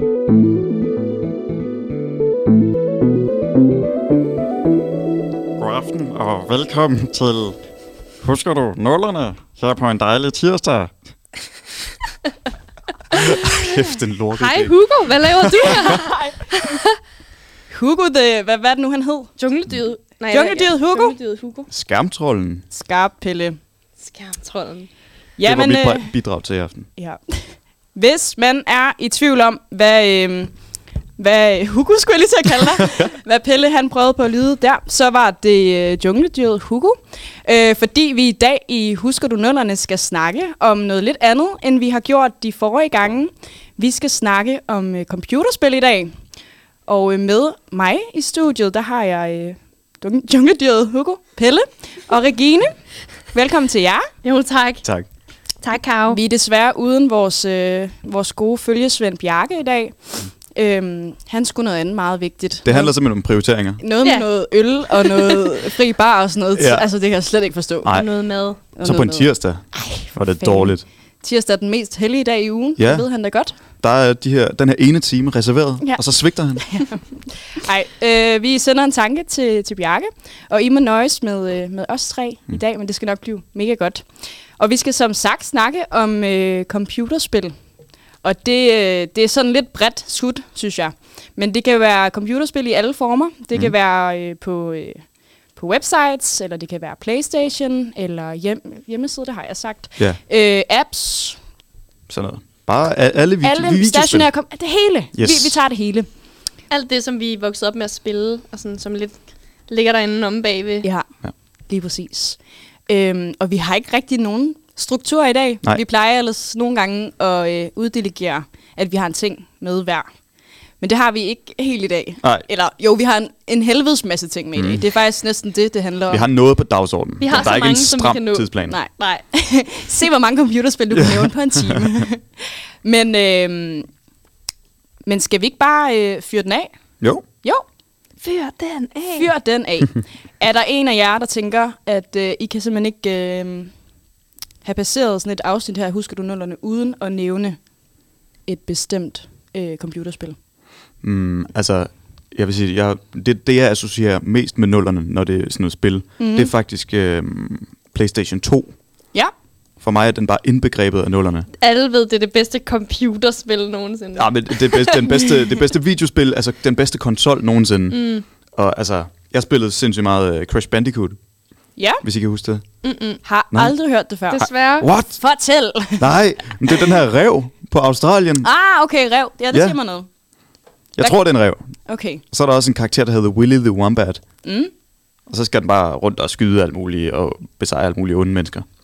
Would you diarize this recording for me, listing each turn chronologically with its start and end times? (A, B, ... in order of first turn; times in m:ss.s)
0:05.6-0:07.6 A
0:08.2-0:10.9 A
0:13.1-0:13.4 B
0:13.1-0:14.8 A
0:14.3-0:16.9 B
0:15.3-0:15.8 A
0:15.9-0:16.2 C
0:17.7-0:19.3 C
0:19.4-0:21.7 B
0:20.3-0:21.2 C
0:21.7-0:22.6 A
0:22.7-0:23.6 C
0:24.0-0:24.9 B
0:25.4-0:26.1 C
0:25.4-0:26.9 A
0:27.0-0:30.5 C
0:31.2-0:46.1 C
0:46.9-0:52.7 C
0:53.3-0:54.1 C
0:54.2-0:54.8 B
0:55.6-0:56.2 B
0:56.1-1:03.0 C
1:02.6-1:03.8 A
1:03.8-1:08.1 C
1:04.0-1:04.3 B
1:04.9-1:05.5 B
1:06.5-1:06.8 A
1:07.8-1:08.1 A
1:07.9-1:08.6 B
1:08.6-1:10.8 A
1:08.7-1:13.6 C
1:12.8-1:13.0 A
1:13.8-1:16.8 A
1:16.6-1:24.0 C
1:24.6-1:27.5 C
1:28.2-1:35.0 C
1:35.6-1:41.4 C
1:42.1-1:44.3 A
1:43.4-1:46.1 C
1:45.1-1:45.6 A
1:46.7-1:50.8 B
1:51.7-1:52.4 C
1:52.9-2:00.0 C
2:00.8-2:06.2 C
2:04.5-2:04.8 A
2:06.1-2:08.8 A
2:07.2-2:08.5 B
2:08.7-2:13.9 C
2:10.9-2:11.8 A
2:15.0-2:16.7 C
2:18.2-2:19.3 B
2:19.1-2:23.7 C
2:24.6-2:27.6 C
2:28.4-2:30.4 C
2:31.0-2:38.7 A
2:36.2-2:36.5 C
2:39.8-2:41.5 A
2:41.6-2:45.1 B
2:44.2-2:51.2 A
2:47.9-2:48.2 B
2:51.8-2:52.0 C
2:52.0-2:52.6 A
2:52.8-2:53.2 B
2:53.2-2:56.8 C
2:54.3-2:54.9 B
2:54.8-2:55.2 A
2:56.0-2:58.5 A
2:58.4-3:00.1 C
3:01.0-3:01.7 A
3:01.8-3:02.2 C
3:02.3-3:04.2 A
3:04.4-3:04.7 C
3:05.3-3:08.6 A